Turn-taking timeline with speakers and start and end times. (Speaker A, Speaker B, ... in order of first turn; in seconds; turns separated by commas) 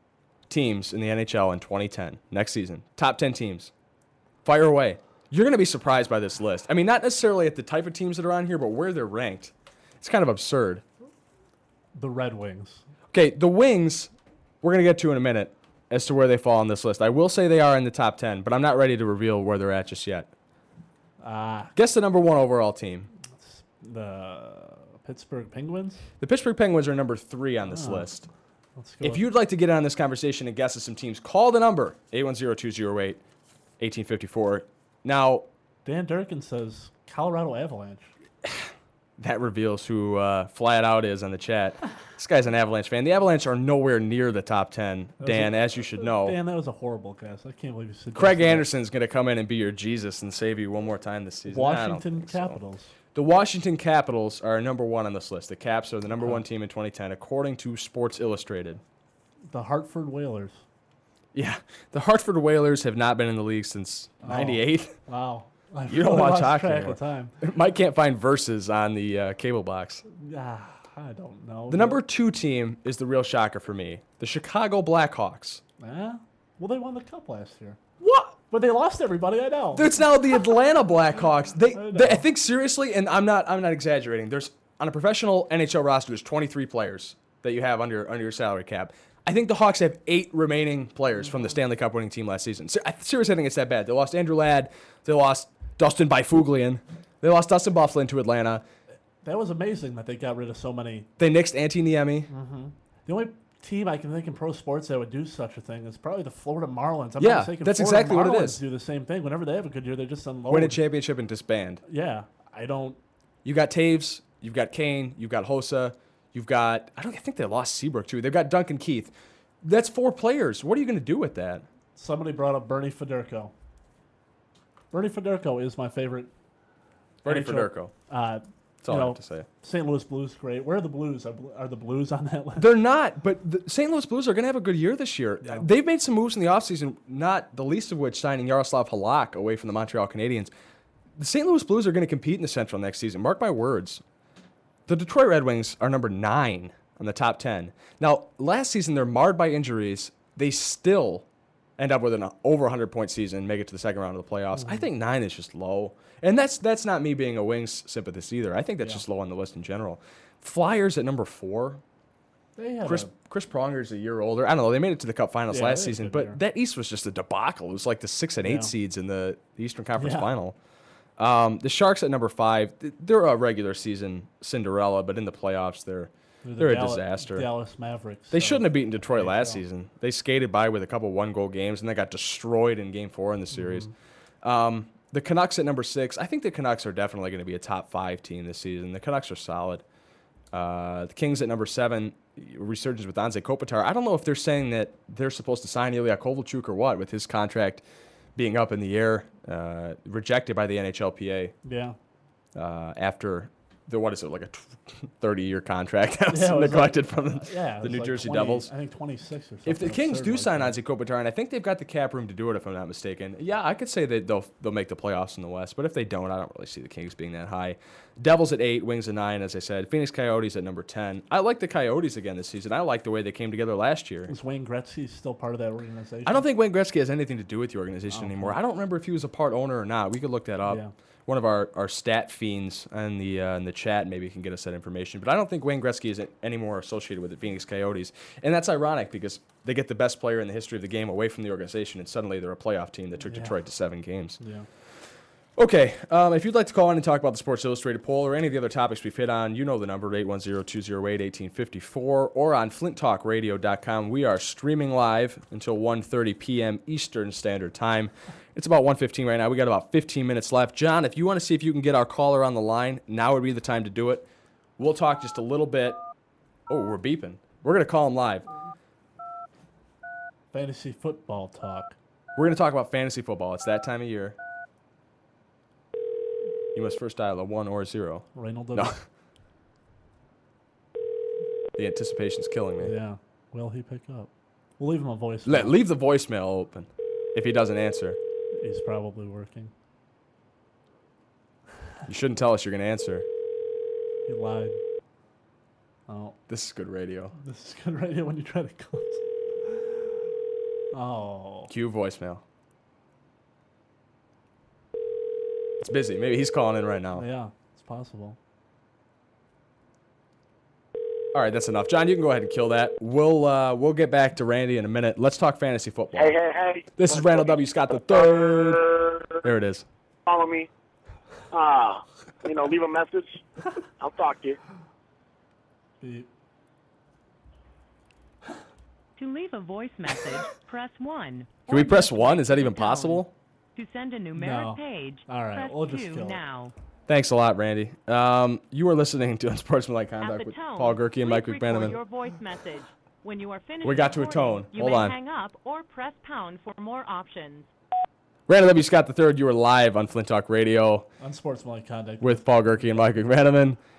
Speaker A: 0.5-3.7, Speaker A: 4.4-10.8, Speaker B: 11.9-12.8, Speaker A: 13.1-14.1, Speaker A: 14.6-20.3, Speaker B: 21.2-21.7, Speaker A: 21.8-23.1, Speaker B: 23.4-26.1, Speaker A: 26.2-28.3, Speaker B: 27.7-28.1, Speaker B: 28.8-29.2, Speaker A: 29.0-33.2, Speaker A: 33.8-35.5, Speaker B: 35.9-38.1, Speaker A: 39.2-46.4, Speaker B: 45.2-48.7, Speaker A: 48.1-52.6, Speaker B: 51.5-52.9, Speaker A: 53.1-58.8, Speaker B: 56.2-56.4, Speaker B: 59.5-60.6, Speaker A: 61.3-64.9, Speaker B: 64.2-67.3, Speaker A: 65.9-70.0, Speaker B: 70.1-72.0, Speaker A: 71.7-75.6, Speaker B: 75.8-77.8, Speaker A: 78.0-78.3, Speaker B: 78.5-79.9, Speaker A: 79.7-98.6, Speaker B: 81.7-82.3, Speaker B: 99.2-101.1, Speaker A: 101.2-102.3, Speaker B: 102.3-110.8, Speaker A: 107.2-108.6, Speaker A: 110.5-111.8, Speaker B: 111.9-113.0, Speaker A: 113.4-121.7, Speaker B: 122.0-123.5, Speaker B: 124.9-126.3, Speaker A: 127.2-127.9, Speaker B: 127.2-132.7, Speaker A: 128.8-129.5, Speaker A: 132.6-140.5, Speaker A: 141.2-144.0, Speaker A: 144.9-151.3, Speaker A: 151.8-161.8, Speaker B: 154.6-154.9, Speaker B: 162.6-163.1, Speaker A: 162.8-170.6, Speaker B: 165.5-166.4, Speaker B: 168.4-168.7, Speaker B: 170.0-170.3, Speaker A: 171.2-177.5, Speaker B: 176.4-179.6, Speaker A: 178.3-183.9, Speaker B: 183.5-183.9, Speaker A: 184.4-189.8, Speaker A: 190.5-197.8, Speaker A: 198.3-201.6, Speaker B: 201.7-202.0, Speaker A: 202.6-208.7, Speaker B: 206.3-210.8, Speaker A: 209.7-224.3, Speaker B: 224.3-226.5, Speaker A: 226.2-264.3, Speaker B: 228.1-228.6, Speaker B: 230.7-230.9, Speaker B: 243.3-243.6, Speaker B: 244.4-244.7, Speaker A: 264.8-266.0, Speaker A: 266.7-268.5, Speaker B: 270.5-271.9, Speaker A: 272.4-274.4, Speaker A: 276.7-279.0, Speaker B: 278.4-279.0, Speaker A: 281.8-282.9, Speaker B: 282.8-285.8, Speaker A: 285.4-288.2, Speaker B: 288.6-289.7, Speaker A: 292.1-293.3, Speaker B: 294.3-294.8, Speaker B: 296.1-296.4, Speaker A: 296.5-297.3, Speaker B: 297.4-299.9, Speaker B: 300.9-301.7, Speaker A: 301.7-302.4, Speaker A: 305.8-307.2, Speaker B: 307.1-308.4, Speaker A: 311.3-316.4, Speaker C: 316.2-316.8, Speaker A: 317.0-319.9, Speaker C: 320.3-320.7, Speaker C: 321.5-323.2, Speaker C: 324.0-324.6, Speaker B: 326.0-326.3, Speaker D: 329.2-336.7, Speaker A: 331.7-333.3, Speaker B: 334.3-336.4, Speaker A: 337.1-342.0, Speaker D: 340.2-347.7, Speaker A: 343.8-345.2, Speaker A: 348.5-351.1, Speaker B: 351.2-352.6, Speaker A: 352.2-353.8